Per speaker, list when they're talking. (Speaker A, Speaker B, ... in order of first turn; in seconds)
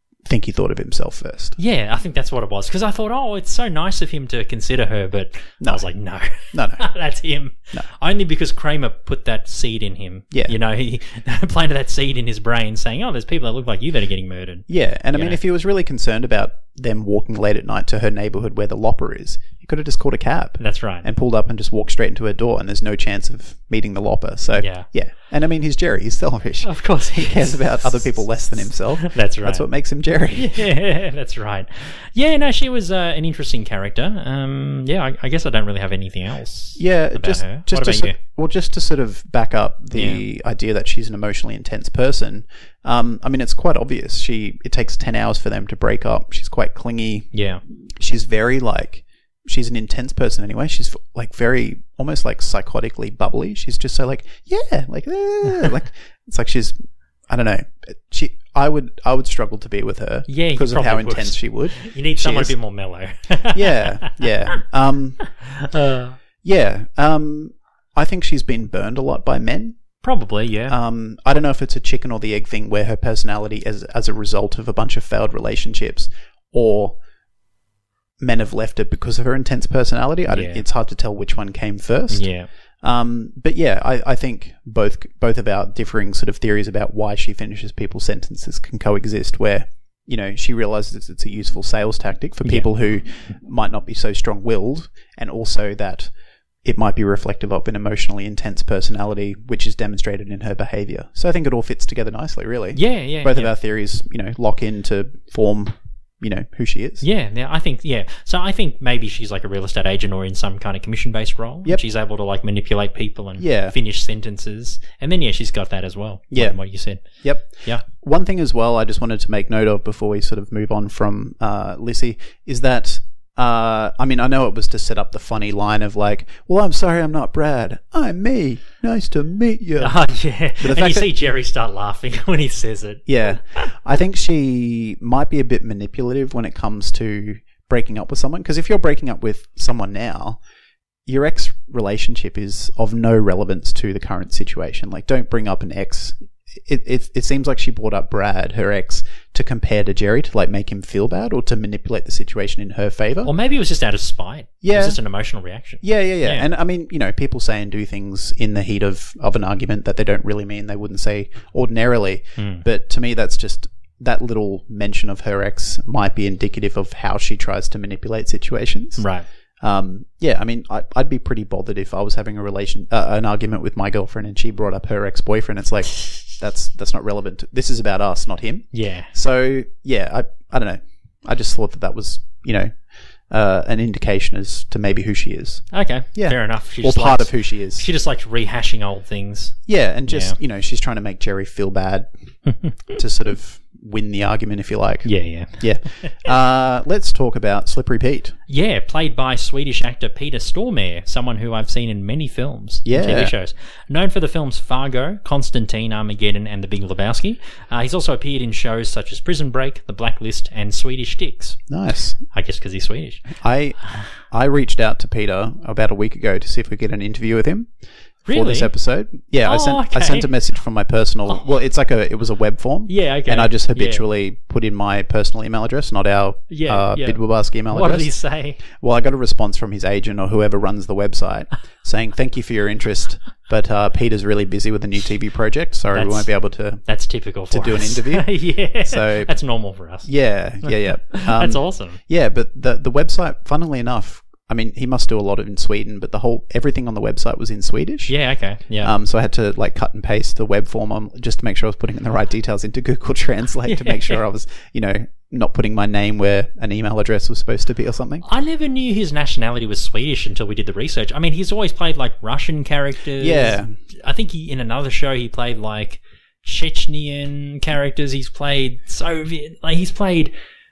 Speaker A: 0.2-1.6, 5.6-5.9, 6.5-6.8, 14.7-30.6, 36.8-47.3, 48.0-56.8, 57.3-62.6, 63.5-65.2, 66.4-69.8, 70.7-77.0, 78.2-82.3, 82.8-96.1, 96.7-107.0, 113.4-113.8, 116.3-116.6, 117.2-130.0, 130.6-131.1, 133.1-140.4, 141.1-153.3, 154.6-155.0, 155.8-169.1, 169.6-182.8, 183.3-187.9, 189.7-192.1, 192.9-198.4, 202.9-203.3, 211.7-212.2, 213.3-217.7, 218.3-228.1, 228.6-236.8, 237.5-239.3, 240.1-248.1, 248.8-258.2, 263.2-263.7
Speaker B: 1.6-15.4, 20.6-21.1, 24.6-24.9, 26.6-28.2, 29.0-29.6, 30.3-38.2, 39.9-40.2, 47.3-47.6, 60.3-64.2, 65.4-66.2, 70.0-70.8, 80.3-80.6, 82.1-82.5, 102.8-103.5, 107.0-117.8, 129.8-133.7, 153.2-156.5, 162.4-162.6, 169.0-169.3, 178.7-179.1, 185.7-189.6, 190.1-190.4, 192.5-192.8, 195.1-196.2, 198.5-211.6, 212.3-213.3, 218.3-218.7, 219.4-220.3, 222.9-224.1, 226.5-228.6, 235.9-236.3, 236.8-240.1, 240.6-242.0, 248.1-248.9, 253.7-254.2, 258.2-270.3